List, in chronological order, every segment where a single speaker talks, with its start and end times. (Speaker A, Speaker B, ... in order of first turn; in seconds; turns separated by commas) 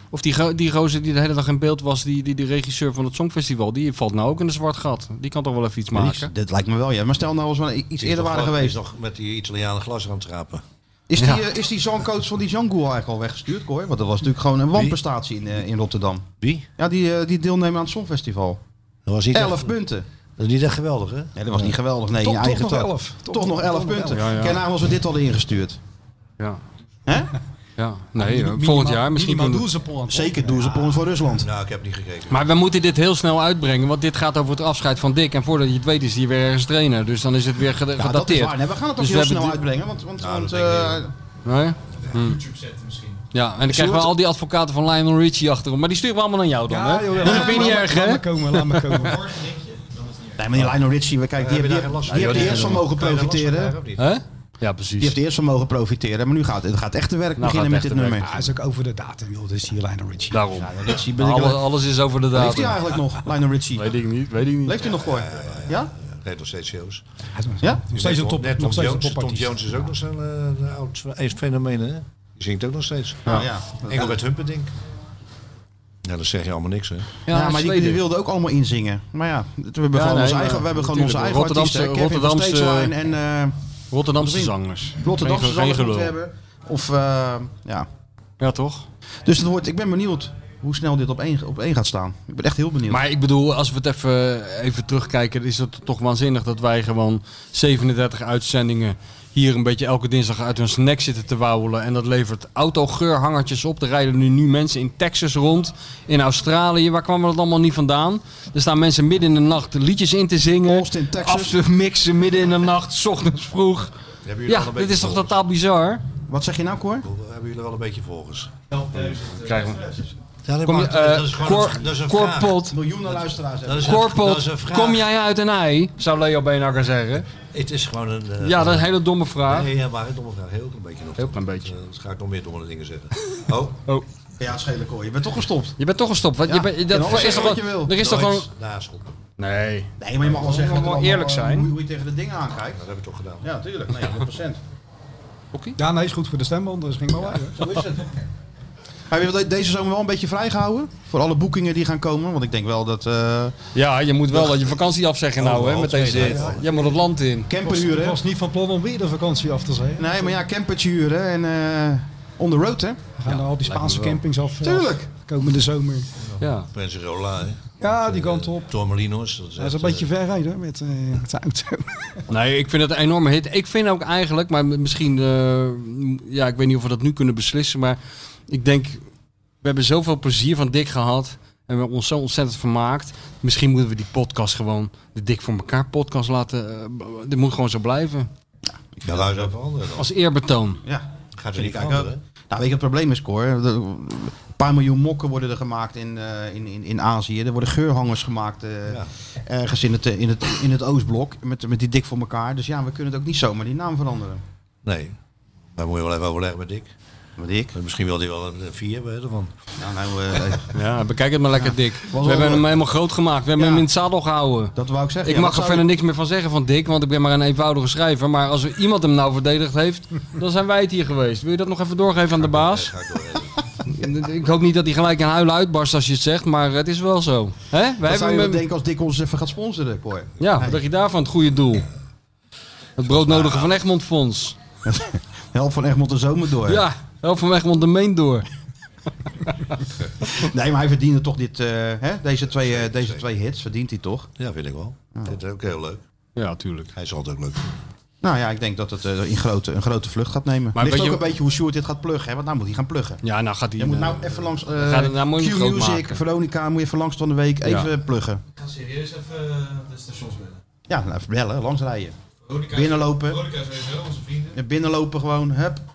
Speaker A: 0.1-6.3, Speaker B: 5.9-8.8, Speaker C: 8.0-10.6, Speaker B: 11.1-16.2, Speaker A: 11.2-11.4, Speaker C: 14.7-15.0, Speaker C: 16.4-16.7, Speaker B: 16.8-18.6, Speaker C: 19.1-19.8, Speaker B: 19.3-20.1, Speaker C: 20.4-21.7, Speaker B: 21.4-25.8, Speaker D: 22.2-24.6, Speaker A: 24.1-24.6, Speaker A: 27.8-29.7, Speaker D: 28.2-31.0, Speaker B: 30.1-31.5, Speaker C: 31.4-32.5, Speaker A: 32.3-39.6, Speaker B: 38.0-41.1, Speaker C: 40.2-41.1, Speaker A: 41.5-42.4, Speaker E: 42.2-43.2, Speaker A: 43.3-49.1, Speaker B: 43.7-44.1, Speaker D: 46.7-49.3, Speaker B: 47.2-47.8, Speaker E: 49.0-50.4, Speaker B: 50.4-53.8, Speaker C: 51.4-54.1, Speaker A: 52.1-52.9, Speaker A: 54.0-55.2, Speaker B: 55.0-58.3, Speaker A: 57.4-58.3, Speaker D: 58.2-60.5, Speaker A: 60.3-62.8, Speaker B: 60.5-61.6, Speaker B: 62.3-64.0, Speaker A: 63.8-64.8, Speaker B: 64.7-65.9, Speaker C: 64.8-67.0, Speaker D: 67.4-69.9, Speaker C: 67.9-74.7, Speaker B: 73.3-74.2, Speaker C: 76.0-77.1, Speaker A: 77.3-78.0, Speaker B: 77.3-83.5, Speaker A: 79.9-82.9, Speaker A: 83.9-86.1, Speaker B: 84.2-87.9, Speaker A: 88.4-88.8, Speaker B: 89.3-93.0, Speaker A: 92.9-114.0, Speaker B: 110.7-111.6, Speaker C: 114.2-115.4, Speaker A: 114.5-116.0, Speaker B: 116.3-117.1, Speaker C: 117.0-118.5, Speaker E: 118.7-119.8, Speaker A: 119.4-119.9, Speaker C: 120.4-125.1, Speaker A: 120.7-122.8, Speaker B: 122.7-124.0, Speaker A: 123.8-127.3, Speaker C: 127.5-128.9, Speaker A: 128.4-129.7, Speaker C: 129.4-133.8, Speaker A: 131.2-131.7, Speaker B: 134.4-135.8, Speaker A: 135.8-138.5, Speaker B: 136.5-138.1, Speaker C: 137.0-139.2, Speaker A: 139.4-141.7, Speaker B: 140.0-142.8, Speaker C: 142.8-143.5, Speaker B: 143.4-144.6, Speaker A: 145.5-145.8, Speaker D: 145.8-147.8, Speaker B: 147.6-148.1, Speaker B: 149.1-153.5, Speaker A: 153.8-157.5, Speaker C: 155.4-156.7, Speaker B: 157.5-158.2, Speaker D: 157.6-160.3, Speaker B: 160.0-163.0, Speaker D: 163.2-166.1, Speaker A: 163.2-164.2, Speaker B: 164.6-165.1, Speaker C: 166.3-170.1, Speaker A: 166.4-166.7, Speaker D: 167.8-168.7, Speaker D: 169.6-172.1, Speaker A: 172.3-178.0, Speaker A: 178.5-179.0, Speaker A: 179.6-188.3, Speaker B: 189.0-189.3, Speaker C: 189.0-190.1, Speaker A: 190.0-190.8, Speaker B: 190.8-204.4, Speaker C: 191.4-192.2, Speaker C: 204.8-205.2, Speaker C: 205.8-206.9, Speaker B: 207.4-207.7, Speaker C: 207.7-209.5, Speaker B: 209.8-210.7, Speaker A: 210.7-222.9, Speaker B: 211.6-212.7, Speaker B: 213.6-213.8, Speaker B: 214.8-215.9, Speaker C: 222.4-223.6, Speaker A: 223.9-228.6, Speaker B: 228.0-230.8, Speaker A: 230.4-231.9, Speaker A: 233.0-234.6, Speaker C: 233.1-233.7, Speaker B: 234.8-236.8, Speaker A: 236.7-238.5, Speaker B: 240.3-244.3, Speaker C: 242.5-243.2, Speaker C: 244.4-246.0, Speaker A: 246.4-246.9, Speaker C: 246.9-247.7, Speaker B: 248.2-253.2, Speaker A: 250.8-251.2, Speaker A: 253.2-256.2, Speaker B: 253.8-258.4, Speaker A: 257.6-257.9, Speaker E: 258.6-260.6, Speaker B: 260.9-262.1, Speaker E: 262.4-264.6, Speaker B: 262.7-263.5, Speaker B: 264.5-265.8